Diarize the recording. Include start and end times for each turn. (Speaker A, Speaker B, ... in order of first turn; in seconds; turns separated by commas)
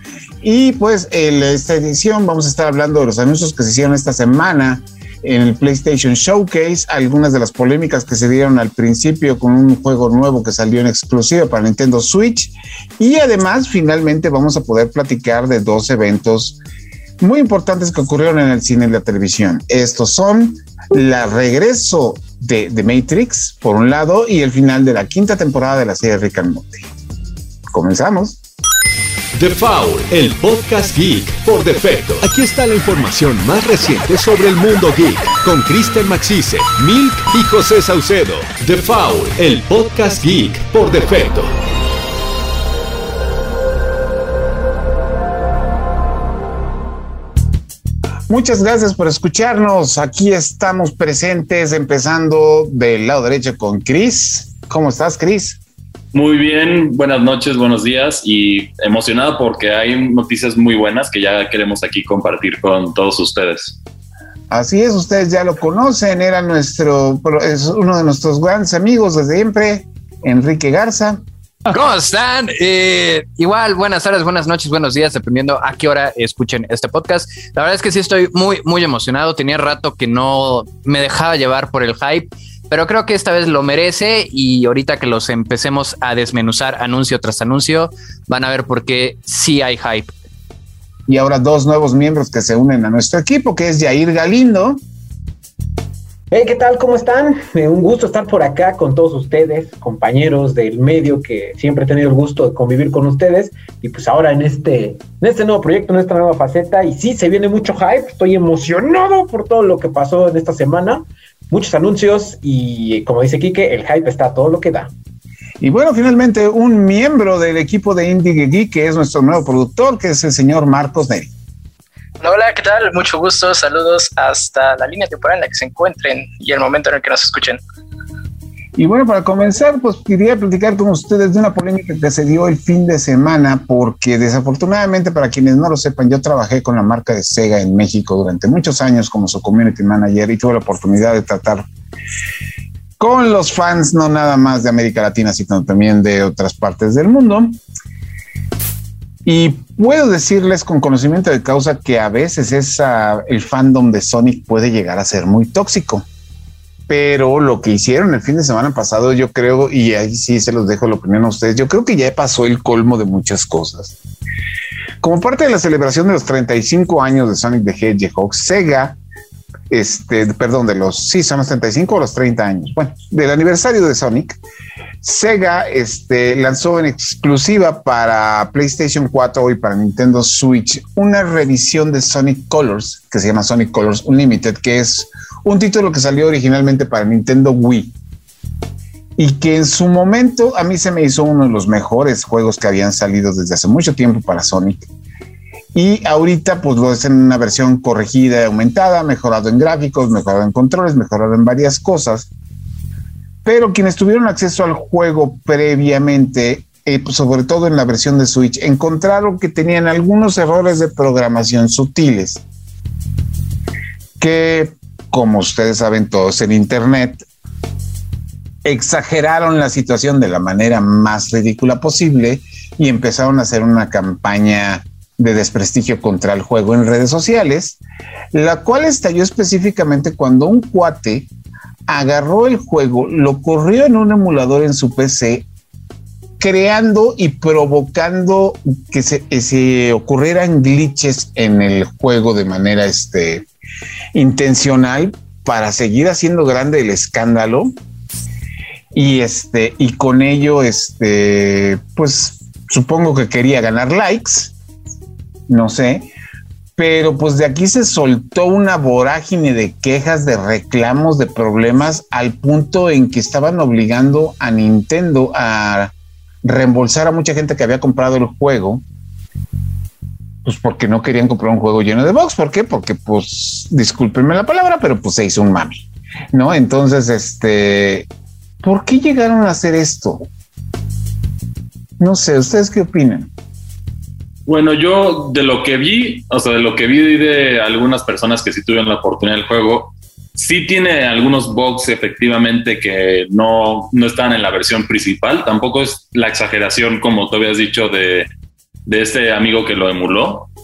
Speaker A: 0.4-16.6, Speaker A: 17.2-26.9, Speaker A: 27.7-28.4, Speaker B: 29.4-41.5, Speaker A: 48.3-55.6, Speaker C: 56.1-63.8, Speaker A: 64.5-71.2, Speaker D: 71.7-90.1, Speaker A: 91.1-94.8, Speaker E: 96.3-114.9, Speaker A: 115.6-121.3, Speaker F: 122.2-127.6, Speaker A: 128.7-141.7, Speaker A: 143.0-147.6, Speaker A: 149.2-156.1, Speaker A: 156.9-163.9, Speaker A: 165.0-169.0, Speaker A: 169.7-174.4, Speaker A: 175.0-187.9, Speaker A: 189.2-194.9, Speaker A: 195.7-202.3, Speaker A: 203.4-212.4, Speaker A: 214.2-217.2, Speaker A: 218.6-227.8, Speaker A: 228.3-231.3, Speaker A: 231.9-235.4, Speaker A: 236.4-243.4, Speaker A: 244.1-247.7, Speaker A: 248.9-254.5, Speaker A: 255.5-256.1, Speaker A: 256.8-268.8, Speaker A: 270.4-278.1, Speaker A: 278.6-280.3, Speaker A: 282.0-283.3, Speaker C: 284.4-298.3, Speaker C: 298.9-300.5